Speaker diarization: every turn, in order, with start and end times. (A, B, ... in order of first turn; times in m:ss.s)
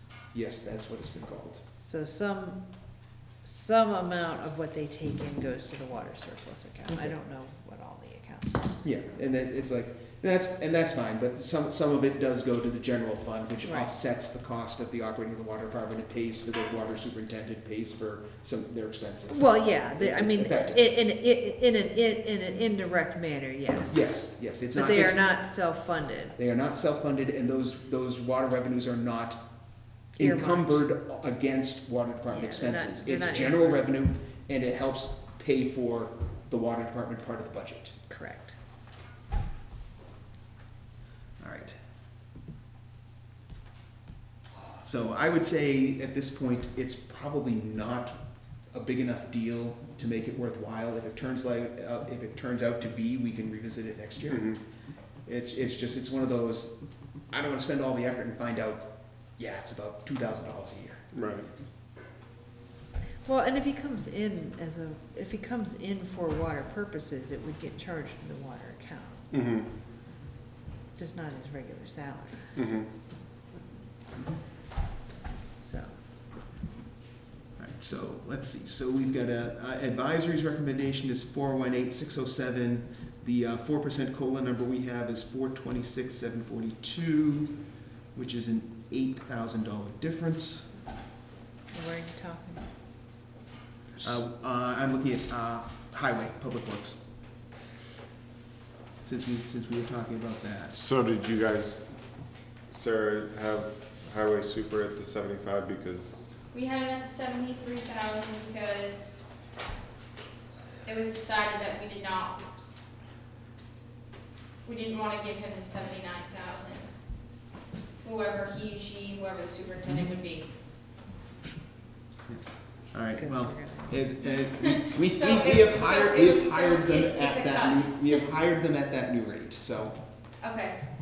0:00.3-0:01.6 A
0:01.8-0:02.6 B
0:03.4-0:08.9 B
0:08.8-0:20.8 A
0:19.3-0:24.0 B
0:23.9-0:25.2 A
0:24.7-0:26.4 B
0:26.4-0:29.4 A
0:30.2-0:38.0 A
0:30.2-0:30.8 B
0:32.3-0:33.8 B
0:38.1-0:38.6 B
0:41.4-0:41.8 A
0:44.8-0:48.2 A
0:48.7-0:54.6 A
0:54.3-0:54.6 C
0:55.3-0:56.7 A
0:57.3-1:01.1 A
1:01.1-1:01.5 C
1:03.3-1:09.2 B
1:09.3-1:09.7 C
1:11.0-1:12.5 B
1:12.6-1:12.9 C
1:15.6-1:16.0 B
1:17.6-1:27.6 A
1:28.1-1:30.7 A
1:31.7-1:32.7 B
1:34.0-1:37.0 A
1:39.0-1:40.8 A
1:40.8-1:41.9 C
1:42.7-1:46.3 C
1:46.5-1:49.2 D
1:50.8-1:52.4 D
1:54.6-1:56.9 D
1:58.0-2:00.5 D
2:02.9-2:10.0 A
2:03.2-2:04.0 B
2:04.3-2:08.3 D
2:10.4-2:10.8 D